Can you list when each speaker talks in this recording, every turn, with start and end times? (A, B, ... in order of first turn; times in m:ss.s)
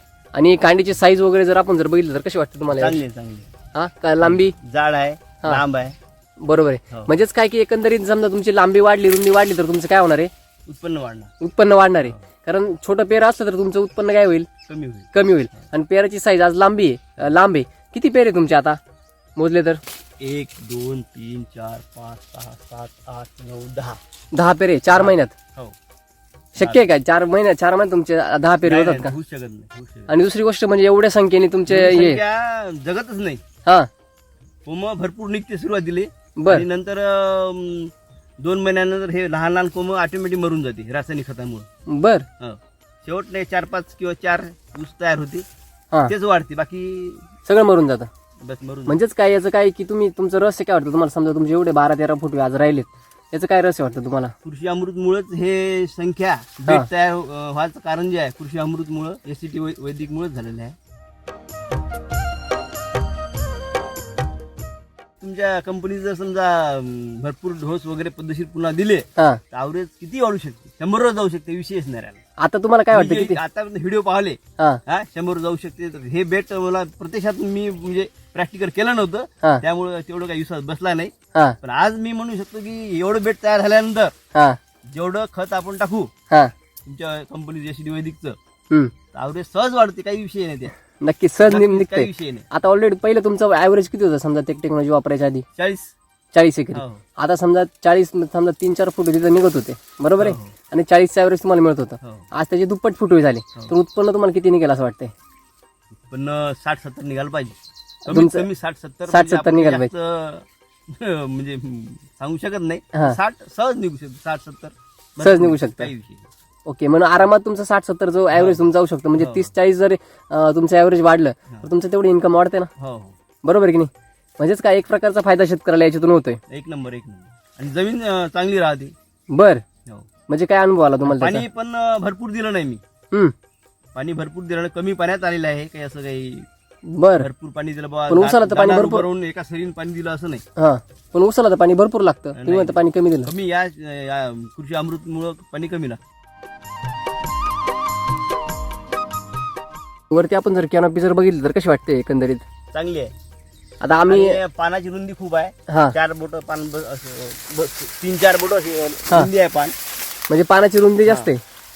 0:00.3-0:03.0 A
0:02.7-0:03.5 B
0:03.7-0:04.5 A
0:04.2-0:06.0 B
0:06.4-0:10.3 A
0:06.9-0:07.2 B
0:10.7-0:11.3 B
0:11.4-0:14.5 A
0:14.7-0:15.6 B
0:15.1-0:18.8 A
0:19.4-0:19.8 A
0:20.2-0:24.0 B
0:24.4-0:25.3 A
0:24.9-0:25.7 B
0:26.6-0:29.1 A
0:28.6-0:30.1 B
0:30.1-0:32.2 A
0:31.7-0:33.4 B
0:34.7-0:41.7 B
0:36.4-0:36.6 A
0:41.9-0:42.3 A
0:42.4-0:45.5 B
0:46.1-0:47.2 B
0:47.5-0:48.1 A
0:48.4-0:49.0 B
0:48.9-0:54.3 A
0:54.4-1:00.8 B
1:05.2-1:12.2 B
1:12.4-1:13.4 A
1:12.9-1:24.1 B
1:24.9-1:26.1 B
1:26.9-1:28.4 B
1:29.1-1:30.8 B
1:31.0-1:35.4 A
1:31.5-1:32.5 B
1:35.6-1:35.9 B
1:36.3-1:45.1 A
1:36.8-1:37.0 B
1:40.2-1:40.5 B
1:42.0-1:42.3 B
1:46.1-1:56.3 B
1:48.1-1:48.4 A
1:49.1-1:49.9 A
1:55.2-1:55.9 A
1:56.7-2:02.7 A
1:58.3-1:58.6 B
1:59.2-1:59.5 B
2:02.8-2:03.2 B
2:03.4-2:06.4 A
2:06.5-2:08.9 B
2:09.3-2:09.6 A
2:10.3-2:11.4 A
2:11.0-2:12.8 B
2:14.0-2:16.5 B
2:16.9-2:17.3 A
2:17.2-2:20.4 B
2:18.1-2:19.1 A
2:20.6-2:23.3 A
2:22.4-2:26.0 B
2:30.1-2:32.4 A
2:32.7-2:33.1 B
2:33.8-2:34.4 A
2:34.1-2:39.7 B
2:35.7-2:36.0 A
2:40.3-2:41.4 A
2:41.1-2:41.3 B